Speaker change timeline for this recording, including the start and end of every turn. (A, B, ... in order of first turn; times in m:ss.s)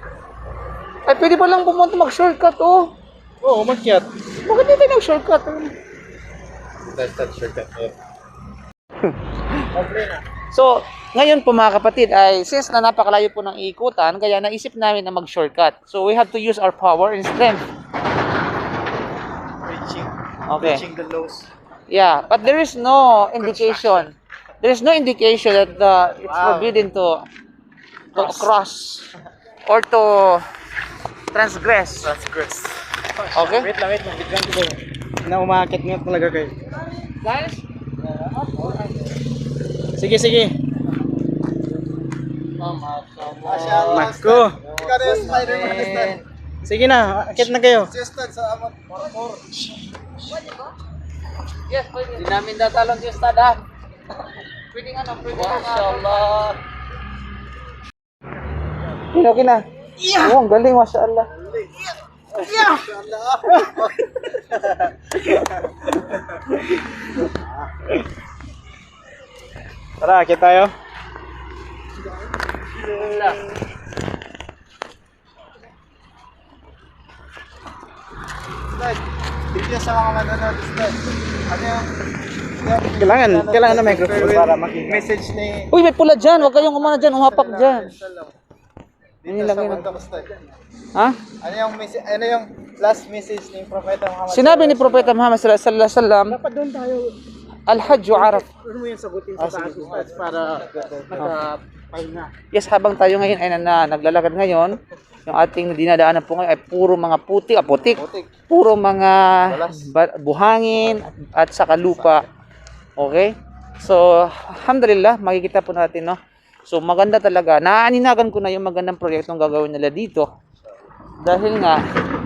0:01.1-0:02.9 A
0:03.4-0:04.1 B
0:04.4-0:05.7 A
0:06.8-0:07.9 C
0:09.7-0:10.2 C
0:10.5-0:17.6 A
0:19.6-0:21.5 C
0:20.5-0:20.8 A
0:21.9-0:27.2 A
0:26.3-0:26.8 C
0:28.1-0:29.1 A
0:29.6-0:30.4 A
0:31.3-0:32.2 A
0:32.1-0:32.9 C
0:33.2-0:36.5 B
0:33.3-0:33.7 A
0:37.2-0:37.6 A
0:38.0-0:38.3 C
0:38.3-0:39.0 A
0:39.9-0:40.6 B
0:42.6-0:44.0 A
0:43.4-0:46.2 C
0:43.8-0:44.6 B
0:44.9-0:46.2 A
0:46.6-0:47.9 B
0:47.7-0:48.8 C
0:49.0-0:49.4 A
0:51.7-0:53.6 A
0:54.7-0:56.6 A
0:59.1-1:01.3 A
1:00.0-1:00.3 B
1:02.3-1:03.9 C
1:03.6-1:05.6 B
1:06.3-1:06.6 B
1:10.0-1:10.7 B
1:18.7-1:28.3 C
1:23.0-1:25.1 B
1:25.7-1:27.9 A
1:29.2-1:30.3 C
1:29.3-1:29.9 A
1:30.9-1:31.2 A
1:31.4-1:35.2 C
1:34.3-1:36.4 A
1:36.3-1:37.2 B
1:37.7-1:38.4 A
1:37.7-1:42.3 B
1:39.4-1:41.2 C
1:41.1-1:41.4 A
1:42.5-1:52.3 A
1:47.8-1:48.3 C
1:49.5-1:49.9 C
1:53.0-2:00.3 A
2:01.2-2:01.8 A